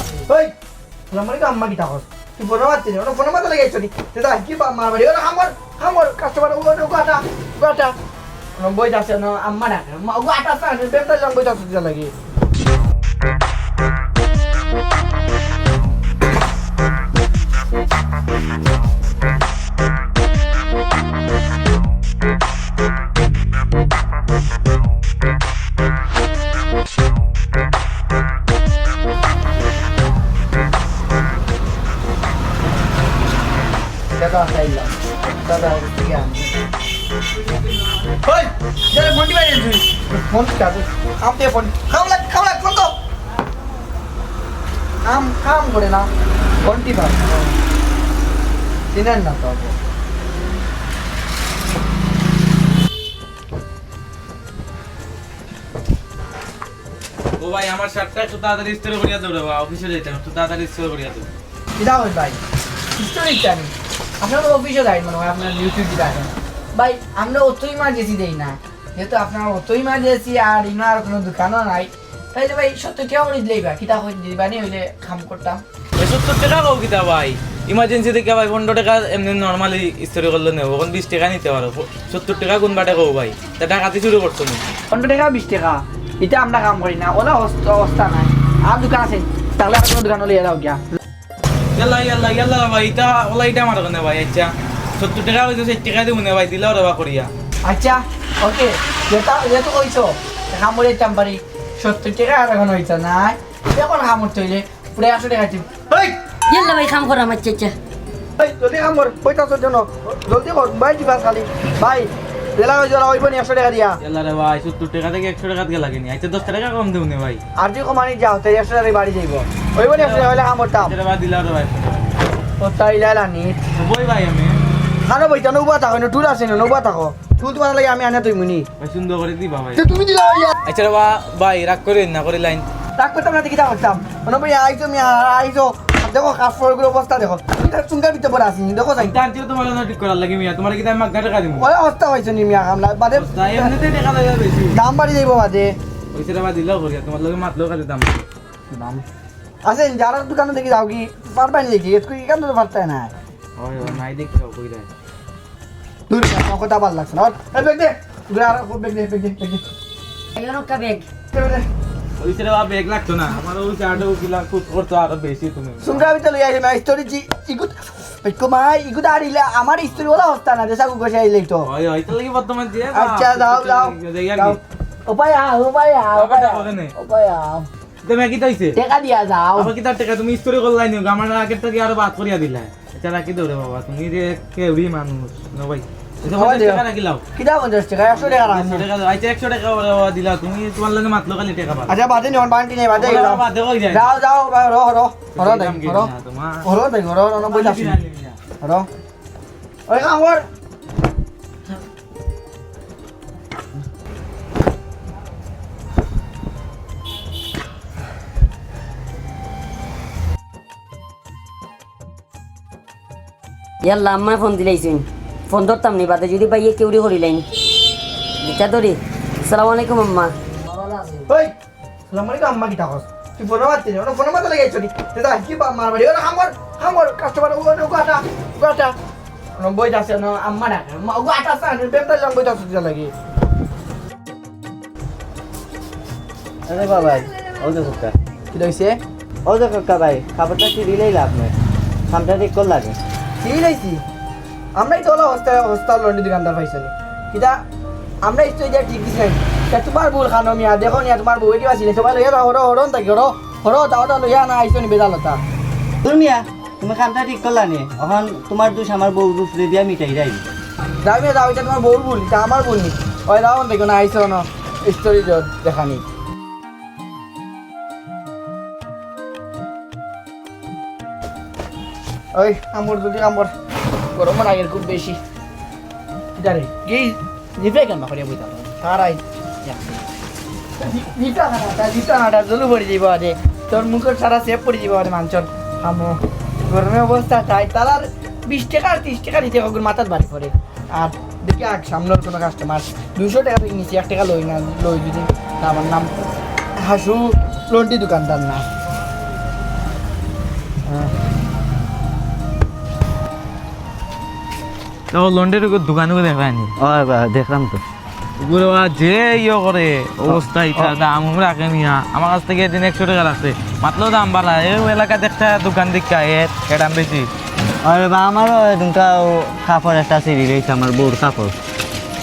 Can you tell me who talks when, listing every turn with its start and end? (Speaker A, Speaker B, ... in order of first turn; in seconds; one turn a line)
Speaker A: 0.2-0.5
Speaker A: 1.1-7.9
Speaker A: 8.6-12.1
Speaker A: 34.2-34.9
Speaker A: 35.4-36.5
Speaker A: 38.2-42.9
Speaker A: 45.0-46.1
Speaker A: 46.6-47.5
Speaker A: 48.9-49.7
Speaker B: 57.4-61.3
Speaker A: 61.8-62.4
Speaker A: 63.0-75.6
Speaker B: 76.0-84.6
Speaker A: 84.9-90.8
Speaker B: 91.8-97.3
Speaker A: 97.6-106.1
Speaker C: 106.5-107.7
Speaker A: 108.4-114.0
Speaker B: 114.0-117.4
Speaker A: 117.5-121.0
Speaker B: 119.8-122.1
Speaker A: 122.6-123.6
Speaker B: 123.8-124.6
Speaker A: 125.0-128.7
Speaker B: 128.8-129.8
Speaker A: 129.8-130.6
Speaker B: 130.6-132.7
Speaker A: 132.9-139.2
Speaker B: 139.0-141.7
Speaker A: 141.5-143.7
Speaker B: 143.1-144.8
Speaker A: 144.7-145.8
Speaker B: 146.1-148.2
Speaker A: 148.7-149.0
Speaker A: 149.6-153.1
Speaker B: 153.6-154.9
Speaker A: 156.1-159.6
Speaker C: 160.3-161.1
Speaker A: 161.3-161.7
Speaker B: 162.2-166.1
Speaker A: 165.8-171.7
Speaker B: 171.6-174.6
Speaker A: 172.9-177.7
Speaker B: 176.1-176.9
Speaker B: 178.0-178.8
Speaker A: 178.8-179.7
Speaker B: 179.5-187.2
Speaker A: 186.2-186.8
Speaker A: 187.3-188.8
Speaker B: 188.1-192.1
Speaker A: 191.9-196.1
Speaker B: 192.9-194.0
Speaker B: 195.3-196.7
Speaker A: 196.6-198.0
Speaker B: 197.3-198.4
Speaker A: 198.6-198.9
Speaker A: 199.9-200.4
Speaker C: 213.8-217.5
Speaker C: 218.4-221.3
Speaker A: 221.3-221.5
Speaker A: 222.1-228.9
Speaker A: 229.6-233.1
Speaker D: 236.7-238.1
Speaker A: 238.5-239.0
Speaker D: 239.4-241.5
Speaker D: 242.1-243.0
Speaker A: 243.4-244.0
Speaker A: 244.8-247.6
Speaker A: 248.2-255.4
Speaker D: 256.0-260.4
Speaker A: 261.0-266.1
Speaker A: 272.3-273.5
Speaker A: 274.1-275.2
Speaker A: 276.4-280.0
Speaker A: 280.8-296.1
Speaker A: 296.8-298.6
Speaker B: 305.1-306.7
Speaker D: 306.8-307.8
Speaker B: 308.4-317.3
Speaker D: 310.2-310.9
Speaker D: 317.8-321.6